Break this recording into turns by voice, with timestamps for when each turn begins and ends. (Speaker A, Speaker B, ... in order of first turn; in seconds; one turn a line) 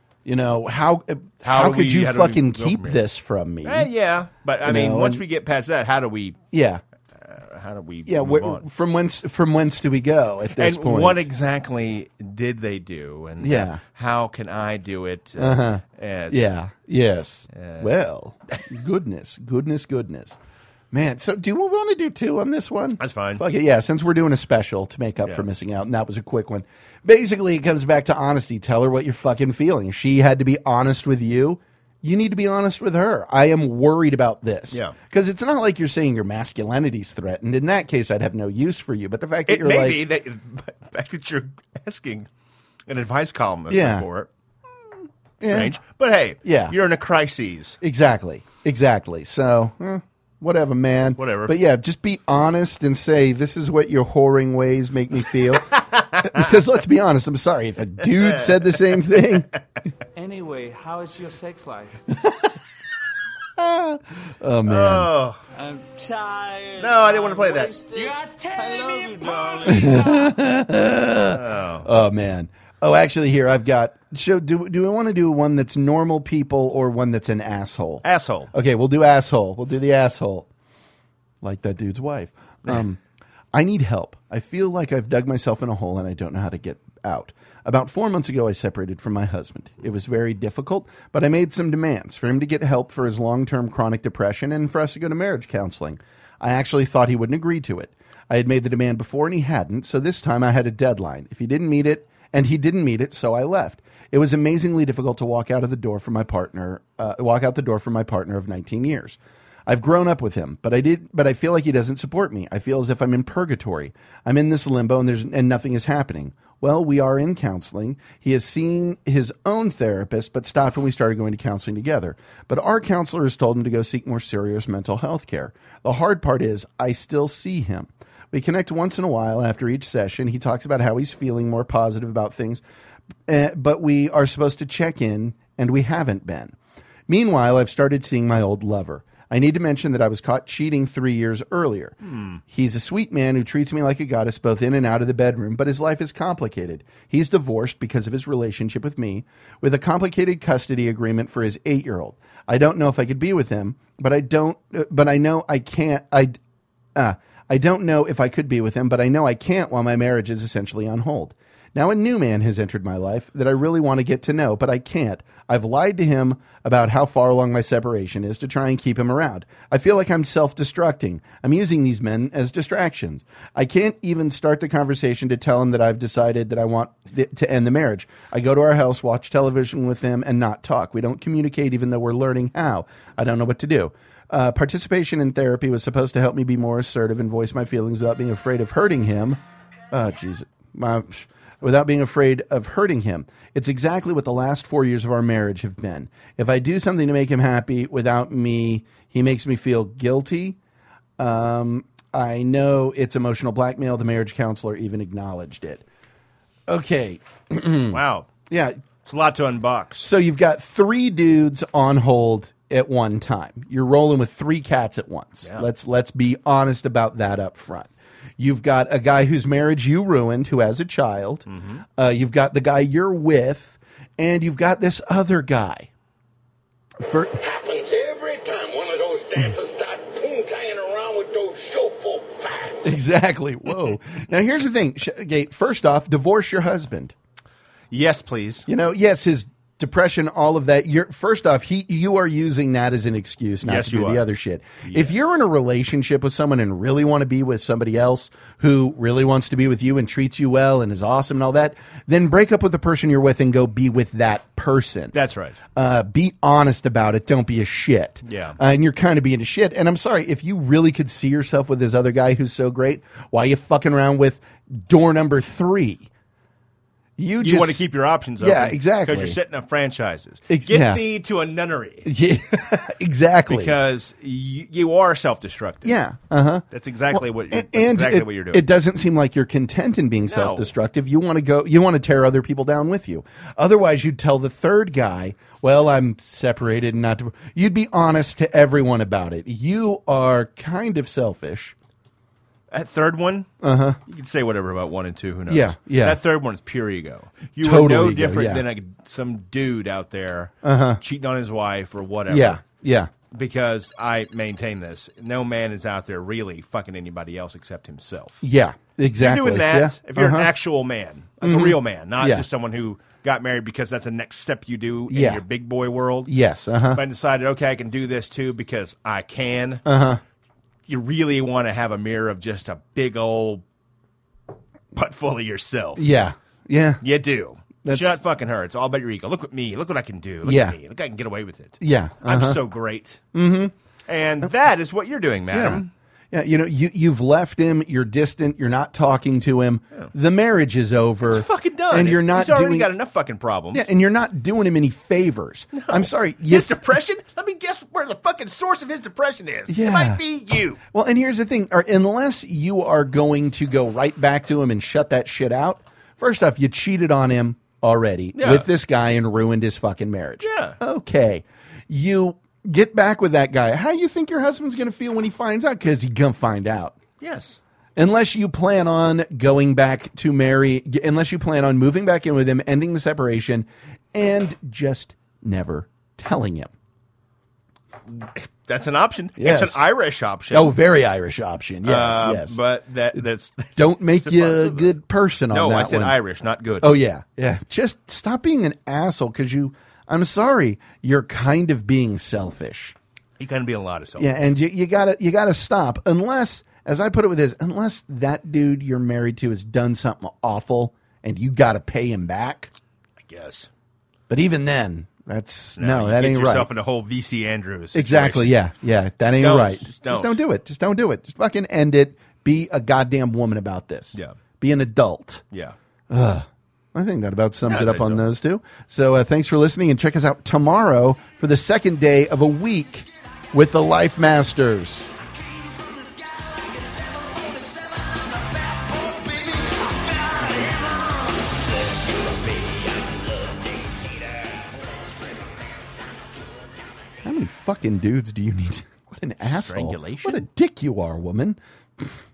Speaker A: 0.2-3.9
Speaker B: 1.4-3.0
Speaker B: 3.6-6.4
Speaker A: 4.7-5.2
Speaker A: 6.5-6.8
Speaker B: 7.2-8.7
Speaker A: 8.1-11.3
Speaker B: 10.6-16.5
Speaker A: 13.4-13.8
Speaker A: 15.4-20.4
Speaker B: 17.5-17.9
Speaker A: 20.9-40.0
Speaker B: 23.0-23.4
Speaker B: 25.2-25.5
Speaker B: 34.7-35.0
Speaker B: 39.5-42.3
Speaker B: 42.9-44.3
Speaker A: 43.7-44.1
Speaker A: 45.4-45.8
Speaker B: 45.5-47.8
Speaker A: 46.4-46.8
Speaker A: 47.8-59.5
Speaker B: 51.2-51.6
Speaker B: 55.7-56.5
Speaker B: 58.0-59.2
Speaker C: 60.2-62.0
Speaker A: 62.1-62.5
Speaker A: 63.6-65.1
Speaker B: 64.7-65.4
Speaker C: 65.5-70.4
Speaker B: 66.8-67.8
Speaker A: 69.6-80.5
Speaker B: 71.3-71.9
Speaker B: 78.0-78.5
Speaker A: 81.4-83.0
Speaker A: 83.5-132.6
Speaker A: 133.3-136.6
Speaker A: 137.1-142.0
Speaker B: 142.1-142.4
Speaker A: 142.5-156.3
Speaker A: 156.9-189.4
Speaker A: 189.9-200.6
Speaker A: 201.2-205.8
Speaker A: 206.7-208.8
Speaker B: 207.9-208.3
Speaker B: 209.0-210.1
Speaker A: 210.0-221.5
Speaker B: 215.4-215.7
Speaker B: 221.5-221.8
Speaker A: 222.0-225.9
Speaker A: 227.0-227.4
Speaker D: 227.5-232.7
Speaker A: 232.8-237.1
Speaker B: 237.9-238.7
Speaker A: 238.7-255.1
Speaker B: 243.6-244.3
Speaker B: 244.8-245.2
Speaker B: 255.1-255.6
Speaker A: 255.8-266.1
Speaker B: 258.2-258.6
Speaker A: 267.2-267.9
Speaker B: 267.4-272.1
Speaker A: 268.4-269.4
Speaker A: 270.5-271.0
Speaker A: 272.1-273.8
Speaker B: 273.5-276.0
Speaker A: 275.8-291.8
Speaker B: 276.7-278.6
Speaker B: 280.2-280.7
Speaker B: 292.7-293.5
Speaker A: 293.6-294.0
Speaker B: 294.1-302.6
Speaker A: 295.5-296.2
Speaker A: 297.6-298.6
Speaker A: 300.6-301.0
Speaker A: 302.3-303.1
Speaker B: 303.3-308.4
Speaker A: 308.4-310.5
Speaker B: 309.2-316.3
Speaker A: 311.4-312.5
Speaker A: 315.1-315.4
Speaker A: 316.3-317.0
Speaker B: 316.9-319.9
Speaker A: 319.9-320.2
Speaker B: 320.9-323.6
Speaker B: 324.9-326.3
Speaker A: 326.0-327.0
Speaker B: 327.0-333.2
Speaker A: 327.9-328.2
Speaker A: 330.4-330.8
Speaker A: 331.8-332.6
Speaker A: 333.3-333.7
Speaker B: 334.1-335.9
Speaker A: 335.5-342.9
Speaker B: 341.2-343.9
Speaker A: 343.7-346.9
Speaker B: 345.7-350.8
Speaker A: 349.7-350.2
Speaker A: 350.9-367.0
Speaker B: 358.4-358.7
Speaker B: 360.4-360.8
Speaker B: 367.2-367.6
Speaker A: 368.0-376.7
Speaker B: 378.1-380.7
Speaker A: 379.4-379.8
Speaker A: 380.5-382.6
Speaker B: 381.8-385.0
Speaker A: 383.8-386.2
Speaker B: 385.5-386.9
Speaker A: 386.8-393.0
Speaker B: 393.4-394.4
Speaker A: 394.2-402.7
Speaker B: 403.2-403.7
Speaker A: 404.3-406.7
Speaker B: 405.8-408.6
Speaker A: 407.9-415.4
Speaker B: 409.2-410.4
Speaker A: 416.1-425.1
Speaker B: 417.6-418.3
Speaker C: 425.8-431.2
Speaker B: 431.6-432.9
Speaker A: 437.2-442.1
Speaker B: 439.4-440.5